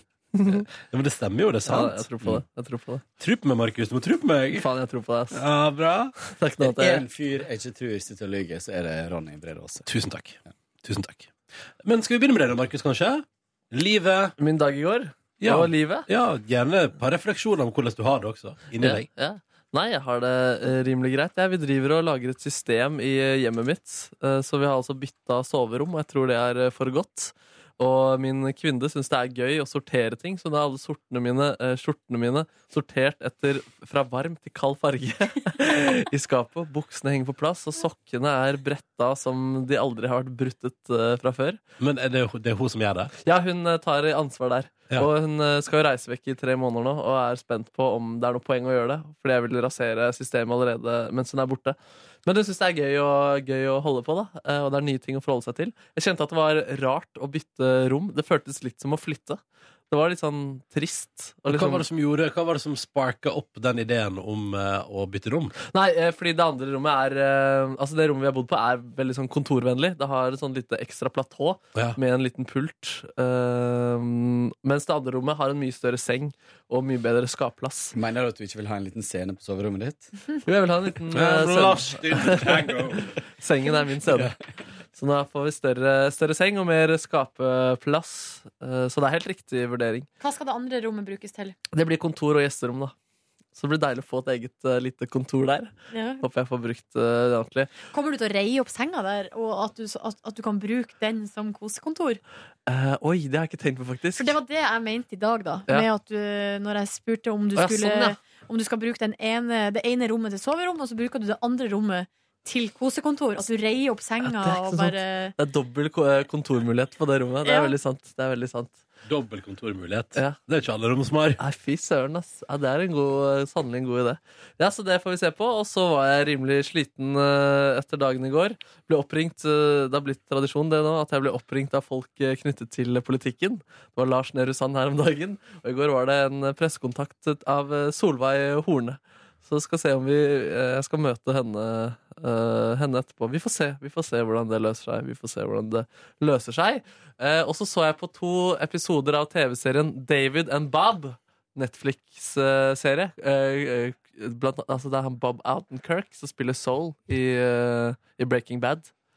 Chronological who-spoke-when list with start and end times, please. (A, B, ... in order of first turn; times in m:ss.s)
0:00.3-0:00.7 A
0:00.5-0:02.0 B
0:01.7-0:03.0 A
0:03.2-0:04.7 B
0:04.6-0:05.4 A
0:05.3-0:06.2 B
0:06.2-0:07.1 A
0:06.6-0:09.9 C
0:09.9-0:14.4 B
0:14.4-0:16.1 A
0:15.4-0:19.1 B
0:18.8-0:41.6 A
0:41.8-0:43.2 B
0:43.2-1:01.8 A
1:01.5-1:05.6 B
1:05.6-1:18.0 A
1:17.9-1:20.1 C
1:20.4-1:22.6 A
1:21.1-1:23.1 B
1:23.4-1:24.3 A
1:24.1-1:24.4 C
1:25.0-1:30.1 A
1:30.2-1:31.6 D
1:31.7-1:32.9 A
1:33.6-1:37.7 A
1:35.9-1:36.2 D
1:37.9-1:42.2 D
1:42.7-1:44.4 A
1:44.2-1:55.3 D
1:47.6-1:48.2 A
1:54.2-1:58.8 A
1:57.4-1:57.7 D
1:59.1-2:01.4 B
2:01.4-2:38.9 A